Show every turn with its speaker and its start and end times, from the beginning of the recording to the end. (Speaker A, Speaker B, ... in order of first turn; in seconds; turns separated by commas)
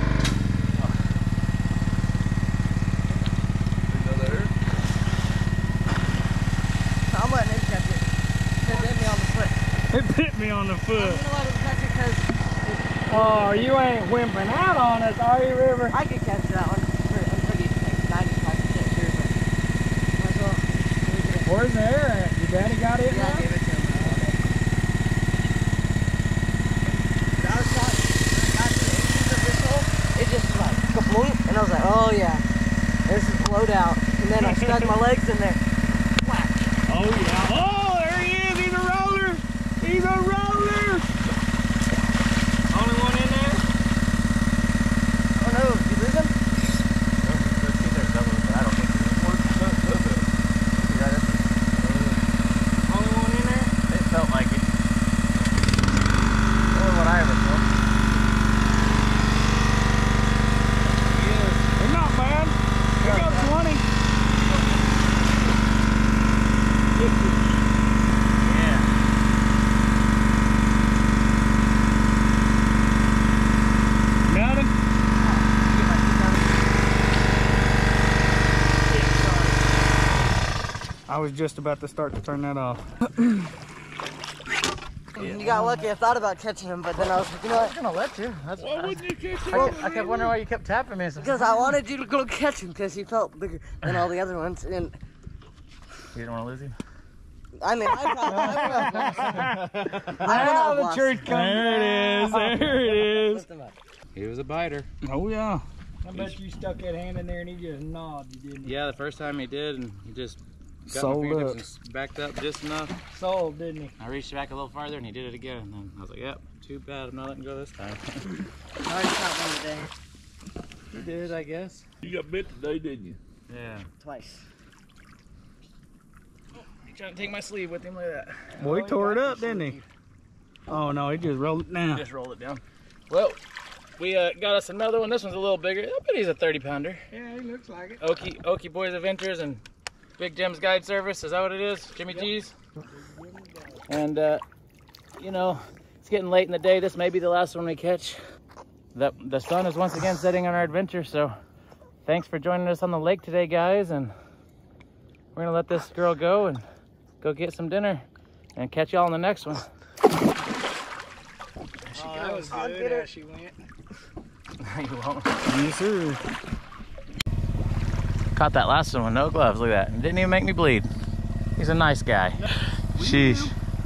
Speaker A: 3.9-4.5, Speaker B: 7.1-8.1, Speaker B: 8.6-9.6, Speaker C: 9.9-11.2, Speaker B: 11.0-13.8, Speaker D: 13.1-16.0, Speaker B: 15.9-19.4, Speaker B: 20.2-21.7, Speaker D: 21.4-24.3, Speaker B: 23.1-24.5, Speaker B: 27.4-32.4, Speaker B: 33.1-35.6, Speaker C: 34.4-34.9, Speaker B: 36.2-36.6, Speaker C: 36.9-41.1, Speaker C: 42.7-43.6, Speaker B: 45.4-46.4, Speaker E: 47.2-49.3, Speaker A: 49.1-50.3, Speaker B: 50.8-51.8, Speaker E: 51.8-52.2, Speaker D: 52.9-53.6, Speaker C: 53.0-53.7, Speaker E: 53.9-54.7, Speaker E: 56.7-57.7, Speaker E: 60.8-61.7, Speaker C: 61.8-63.9, Speaker E: 63.0-63.5, Speaker A: 67.0-67.6, Speaker E: 68.4-68.9, Speaker C: 74.3-74.7, Speaker E: 75.2-76.6, Speaker C: 81.1-83.5, Speaker B: 85.1-87.8, Speaker D: 85.5-85.8, Speaker E: 87.1-91.7, Speaker A: 88.6-90.4, Speaker B: 89.5-90.0, Speaker B: 91.2-95.0, Speaker E: 96.1-96.7, Speaker B: 97.6-99.5, Speaker D: 98.3-102.6, Speaker B: 100.1-101.3, Speaker C: 101.2-103.5, Speaker B: 102.6-103.8, Speaker E: 104.1-104.9, Speaker C: 105.0-105.6, Speaker D: 106.0-108.8, Speaker E: 106.1-106.4, Speaker E: 108.6-112.9, Speaker C: 110.9-111.6, Speaker D: 113.1-114.0, Speaker E: 114.0-118.0, Speaker B: 118.8-119.9, Speaker E: 120.9-121.8, Speaker A: 122.0-123.2, Speaker E: 123.5-123.9, Speaker B: 124.0-124.5, Speaker E: 126.6-128.6, Speaker D: 128.6-129.8, Speaker C: 128.6-129.8, Speaker C: 130.7-132.1, Speaker E: 131.9-133.4, Speaker E: 134.0-137.0, Speaker D: 137.1-138.0, Speaker E: 138.0-139.6, Speaker E: 140.2-142.5, Speaker D: 142.9-143.8, Speaker E: 143.9-144.4, Speaker E: 145.2-148.2, Speaker E: 148.9-151.3, Speaker E: 152.1-154.1, Speaker E: 155.3-156.6, Speaker E: 157.2-158.1, Speaker E: 158.6-159.7, Speaker E: 161.9-162.5, Speaker D: 161.9-163.6, Speaker B: 162.3-163.1, Speaker E: 164.6-165.4, Speaker C: 165.4-166.2, Speaker E: 168.3-170.9, Speaker E: 171.6-172.4, Speaker E: 172.9-173.5, Speaker C: 173.0-173.5